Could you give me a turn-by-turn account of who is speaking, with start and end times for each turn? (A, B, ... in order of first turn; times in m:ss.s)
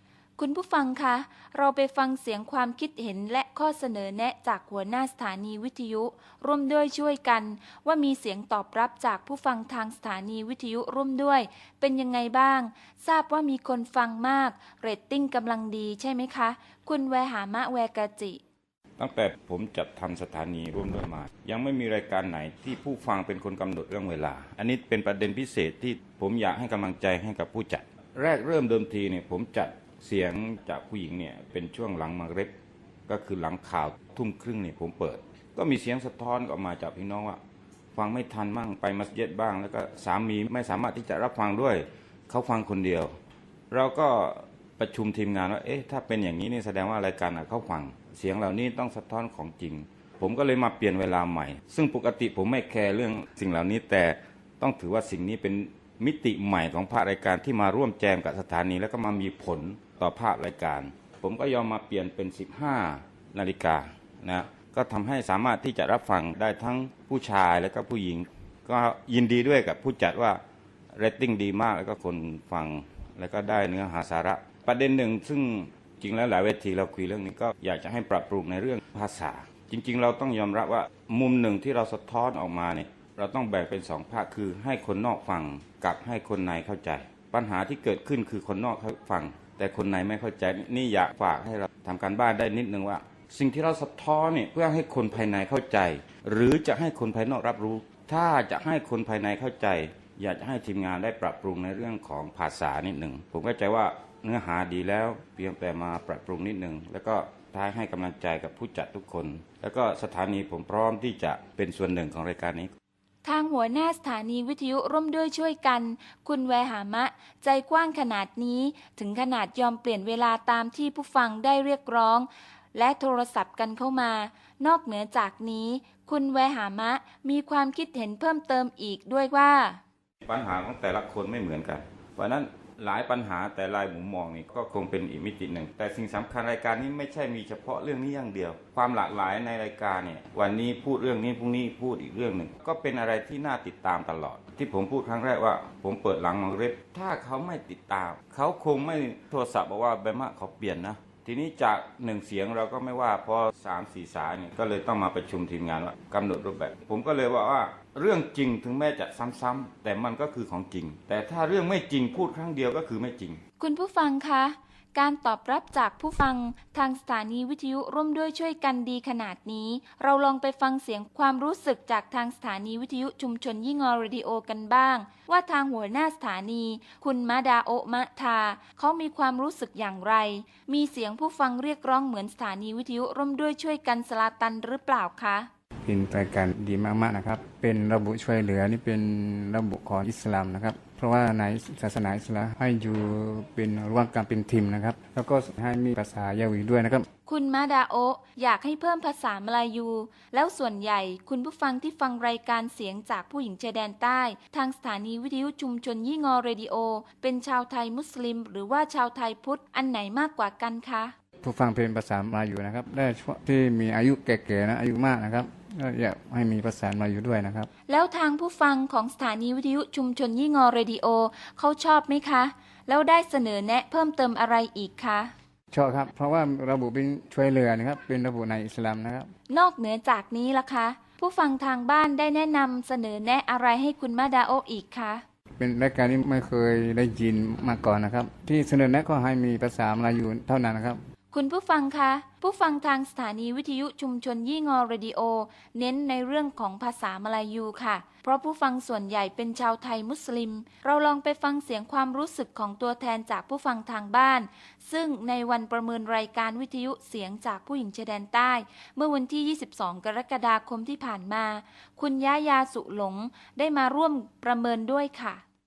0:00.4-0:18.4 A
0:19.0-0:32.5 B
0:33.1-0:37.4 B
0:37.9-0:43.1 B
0:43.7-1:10.4 B
1:10.9-1:52.7 B
1:53.2-2:09.8 A
2:10.2-2:43.4 B
2:43.6-3:05.5 A
3:05.8-3:17.0 C
3:17.2-3:31.1 A
3:31.4-3:37.7 C
3:37.9-3:45.3 A
3:45.7-3:49.3 C
3:49.5-3:55.2 A
3:55.6-4:01.0 C
4:01.3-4:25.4 A